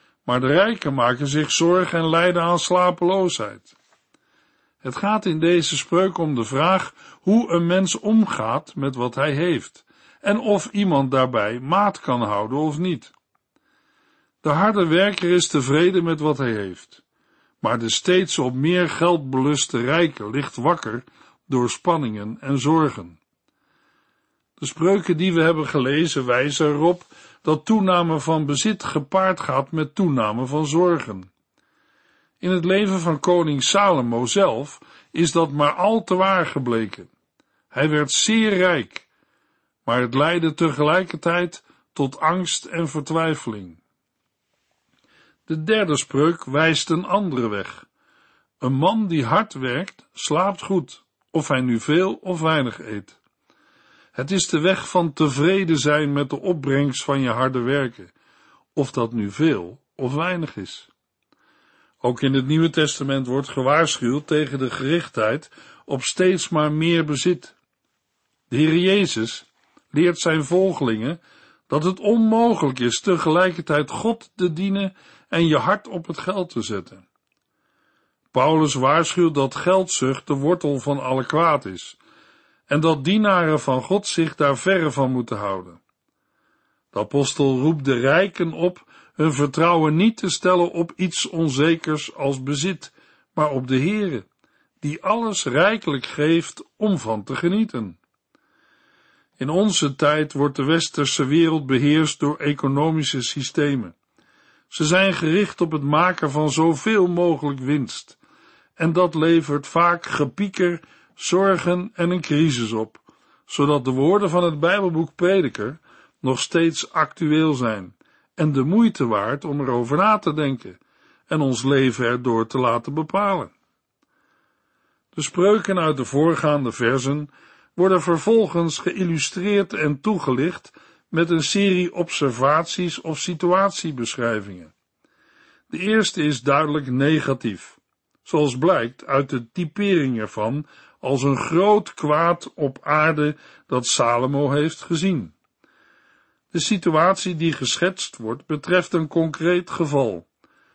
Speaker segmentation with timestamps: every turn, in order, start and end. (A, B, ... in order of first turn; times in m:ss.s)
0:00.2-0:03.7 A
0:04.8-0:13.1 A
0:14.4-0:17.0 A
0:17.6-0:23.2 A
0:24.6-0:31.3 A
0:32.4-0:37.1 A
0:37.7-0:39.1 A
0:39.8-0:43.8 A
0:45.5-0:47.8 A
0:48.6-0:53.2 A
0:54.1-0:58.1 A
0:58.7-1:00.9 A
1:02.0-1:07.5 A
1:08.5-1:17.0 A
1:18.3-1:22.0 A
1:22.7-1:25.8 A
1:26.9-1:34.3 A
1:34.8-1:38.0 A
1:39.4-1:43.9 A
1:44.7-1:48.2 A
1:48.8-2:03.5 A
2:05.1-2:14.7 A
2:15.7-2:25.3 A
2:26.5-2:30.2 A